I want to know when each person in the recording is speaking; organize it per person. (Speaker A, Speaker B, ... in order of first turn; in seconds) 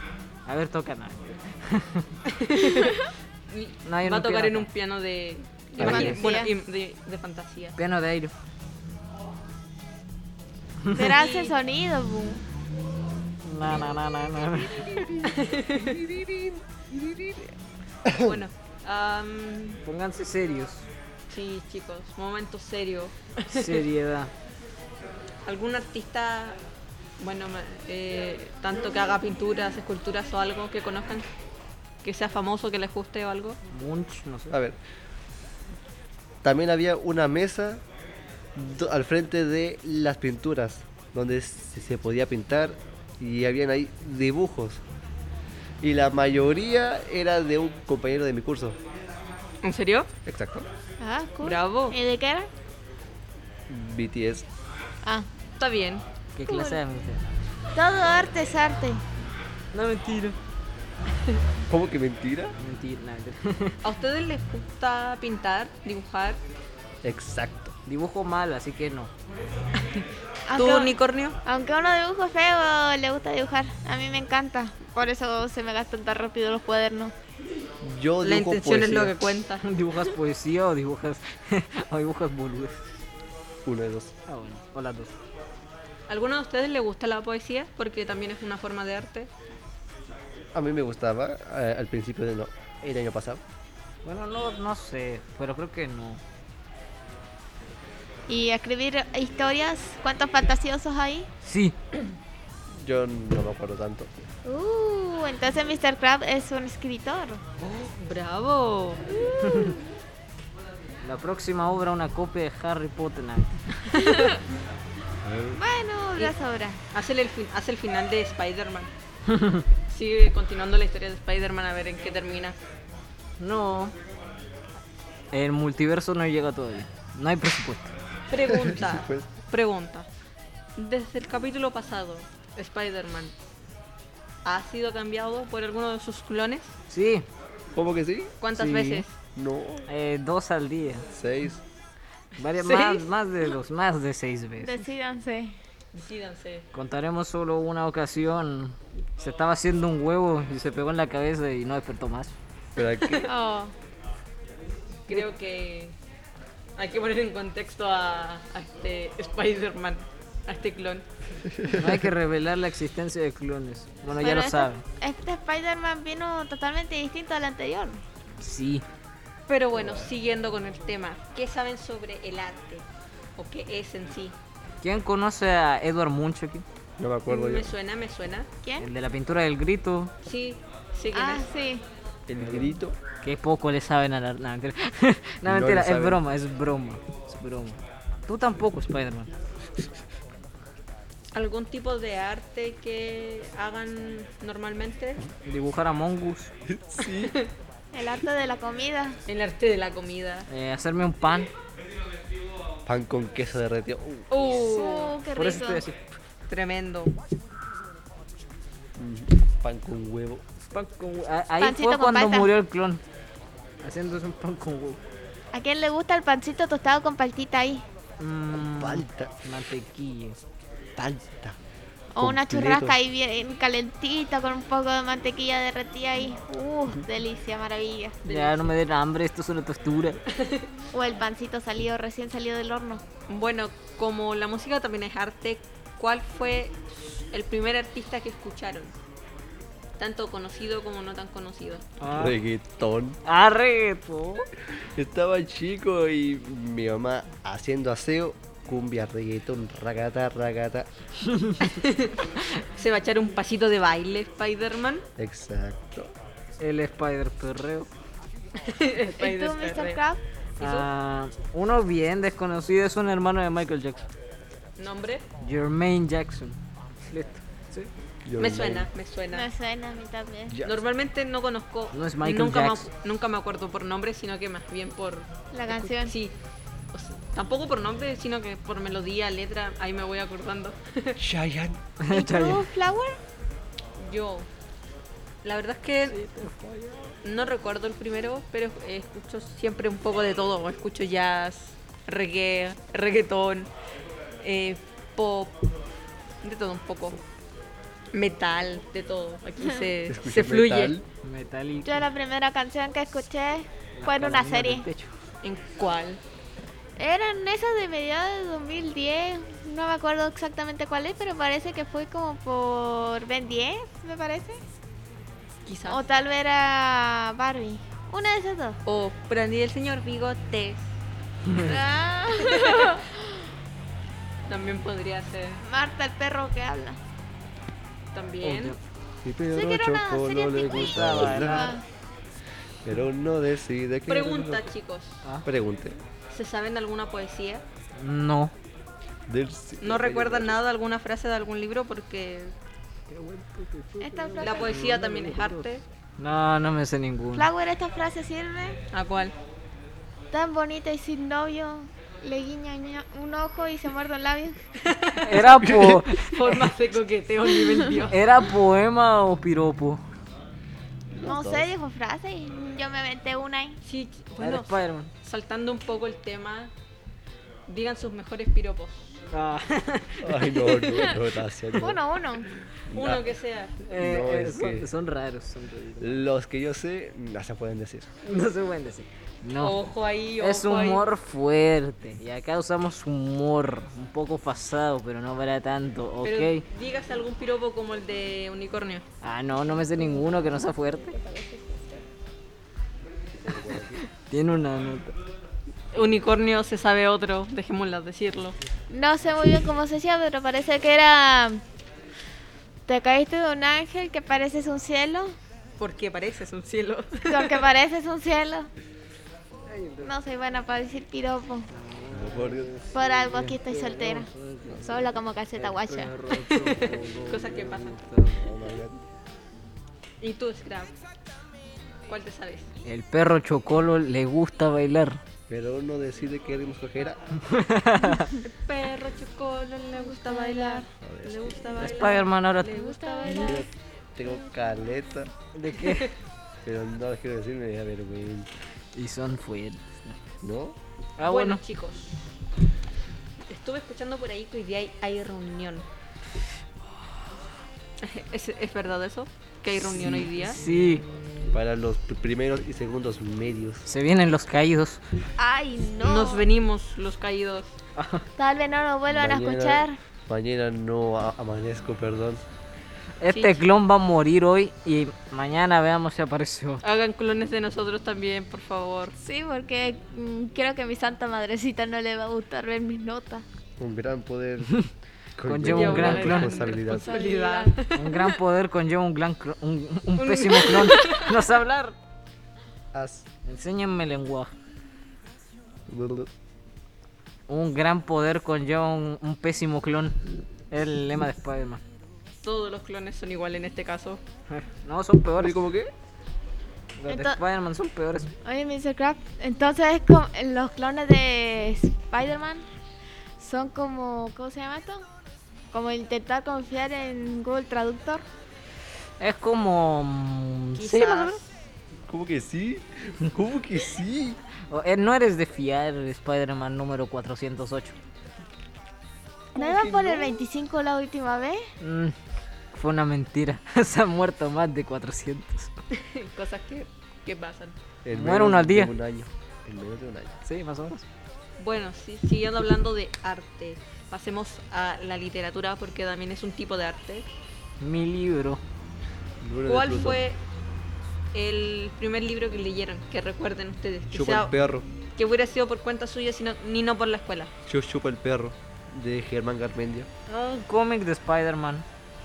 Speaker A: 0.5-2.2, 3.9-4.7, 7.8-8.3, 10.8-11.1, 13.4-15.1, 19.8-20.8, 23.5-24.3, 33.7-34.6, 56.3-57.4, 59.7-60.4, 62.6-63.8, 67.8-69.1, 79.6-82.9, 84.3-85.1, 94.0-96.2, 101.4-101.7, 109.5-109.7, 111.0-113.6, 119.3-119.6, 123.4-123.9, 125.3-127.9, 136.9-137.2, 138.5-139.0, 139.9-141.1, 142.4-144.8, 146.7-152.3, 161.7-164.8, 168.4-168.8, 174.8-176.7, 178.8-180.1, 182.4-182.7, 183.2-189.3, 195.4-196.5, 200.5-201.5, 205.3-206.1, 210.7-213.0, 213.8-215.0, 218.2-220.4, 228.2-230.2, 242.0-242.4, 243.2-244.4, 251.2-251.8, 256.6-257.9, 260.6-264.1, 265.4-267.9, 271.9-272.9, 282.0-282.7, 286.1-287.1, 301.2-302.1, 303.9-305.1, 328.4-328.8, 330.7-331.8, 337.9-338.5, 343.1-345.7, 346.2-347.5, 355.2-356.5, 358.1-360.0, 364.4-365.1, 369.3-370.2, 373.9-376.2, 378.2-379.8, 380.4-386.6, 389.2-391.2, 394.1-395.1, 409.7-410.1, 411.7-418.5, 422.8-425.2, 427.4-428.3, 431.8-432.9, 435.5-436.1, 438.9-440.2, 441.2-441.6, 449.8-451.0, 453.9-455.0, 457.9-458.2, 463.2-466.8, 475.4-476.7, 477.9-482.0, 483.4-484.5, 487.5-490.2, 490.7-491.8, 494.5-495.6, 497.0-498.3, 509.2-511.4, 514.7-518.0, 521.8-522.1, 522.7-525.7, 528.1-528.9, 530.4-531.0, 537.8-538.6, 550.3-551.9
Speaker B: 2.3-7.8, 11.1-11.5, 15.2-16.0, 18.2-19.8, 21.3-23.8, 25.4-26.6, 27.2-31.3, 32.0-33.6, 49.6-50.1, 51.4-52.0, 55.6-56.0, 63.8-66.4, 69.8-71.4, 78.2-79.6, 86.1-89.3, 107.6-109.1, 113.9-114.3, 116.9-118.9, 119.9-122.6, 128.3-130.1, 130.8-133.3, 134.4-136.8, 138.4-139.2, 142.6-143.1, 145.9-146.7, 153.0-153.3, 155.1-155.9, 156.8-161.1, 169.5-172.8, 173.4-174.3, 177.3-178.5, 180.2-181.5, 191.3-195.2, 197.0-197.5, 199.3-200.5, 204.3-205.2, 206.5-207.1, 230.4-230.7, 233.3-238.9, 240.0-241.9, 251.6-255.1, 258.6-260.0, 260.6-260.9, 264.8-265.2, 268.4-269.5, 270.6-276.3, 276.9-281.2, 284.0-284.5, 285.4-286.2, 287.2-293.7, 294.4-295.7, 296.4-297.2, 298.1-301.0, 305.4-306.2, 315.6-316.0, 318.9-320.9, 322.4-323.0, 324.5-325.6, 328.1-328.8, 334.1-335.2, 336.3-337.6, 339.8-342.5, 344.4-345.8, 348.9-349.3, 354.8-358.2, 363.8-366.7, 367.7-369.2, 370.4-371.2, 372.9-373.8, 379.6-381.0, 386.2-389.0, 395.9-398.6, 405.8-407.7, 416.5-418.0, 420.2-420.9, 422.1-422.7, 428.4-433.6, 435.8-436.1, 441.2-442.2, 443.5-445.9, 448.0-450.6, 456.0-457.8, 463.3-463.6, 466.8-469.1, 475.6-478.0, 480.2-481.4, 492.4-494.2, 510.8-511.5, 525.9-527.8, 531.6-537.3, 539.6-540.4, 541.3-544.5, 545.1-547.5
Speaker C: 2.8-3.1, 5.7-6.5, 10.9-12.4, 51.0-52.5, 56.5-56.8, 57.7-59.0, 70.5-70.9, 71.4-77.1, 98.3-101.3, 104.4-107.4, 109.1-109.9, 113.9-114.4, 115.5-116.8, 144.6-145.6, 153.2-153.7, 164.1-168.0, 178.6-178.9, 181.1-181.8, 197.9-199.2, 204.5-205.8, 211.6-212.5, 215.5-217.8, 222.1-228.2, 230.9-233.0, 259.1-260.2, 269.3-270.6, 275.5-276.1, 282.1-283.2, 301.8-304.9, 307.0-314.6, 315.9-318.8, 321.6-323.3, 325.6-327.0, 329.5-331.8, 344.0-344.8, 347.3-348.8, 350.3-354.6, 361.2-363.8, 371.8-372.5, 391.2-391.8, 398.9-401.6, 402.9-405.3, 407.3-408.7, 410.0-411.7, 412.9-414.3, 414.8-416.1, 430.0-430.9, 432.7-433.6, 455.4-456.4, 458.4-460.0, 469.2-473.4, 476.8-478.4, 497.1-497.4, 498.4-502.7, 503.4-505.1, 505.7-508.2, 519.5-521.7
Speaker D: 5.8-6.3, 14.5-17.5, 18.0-18.4, 34.5-34.8, 36.4-37.8, 38.5-44.8, 45.8-48.8, 50.2-50.7, 53.7-54.5, 61.7-62.5, 67.0-67.7, 77.8-79.2, 83.6-84.1, 90.5-93.4, 102.7-104.1, 115.2-115.6, 128.5-129.3, 137.7-138.4, 139.3-139.8, 141.1-141.6, 152.8-153.3, 161.5-162.0, 169.8-170.0, 177.0-177.7, 182.3-183.0, 185.4-186.2, 196.7-197.3, 202.8-204.4, 209.0-210.4, 218.5-219.3, 221.0-221.6, 222.2-223.0, 242.1-243.2, 244.8-250.9, 255.2-256.1, 268.2-268.9, 281.2-281.8, 300.1-301.0, 329.2-331.7, 332.8-334.7, 335.4-336.0, 339.3-340.6, 355.6-356.1, 361.1-361.7, 370.2-372.0, 372.9-373.3, 373.9-374.9, 376.0-378.1, 393.4-394.0, 412.1-412.7, 418.3-419.0, 425.5-427.2, 431.0-431.7, 433.3-435.3, 436.6-438.5, 440.4-440.8, 451.5-453.9, 459.1-462.4, 473.8-477.1, 482.9-483.2, 485.9-486.3, 495.4-495.9, 512.1-514.4, 519.5-520.4, 528.0-530.4, 539.4-540.2, 544.1-544.9, 547.6-550.1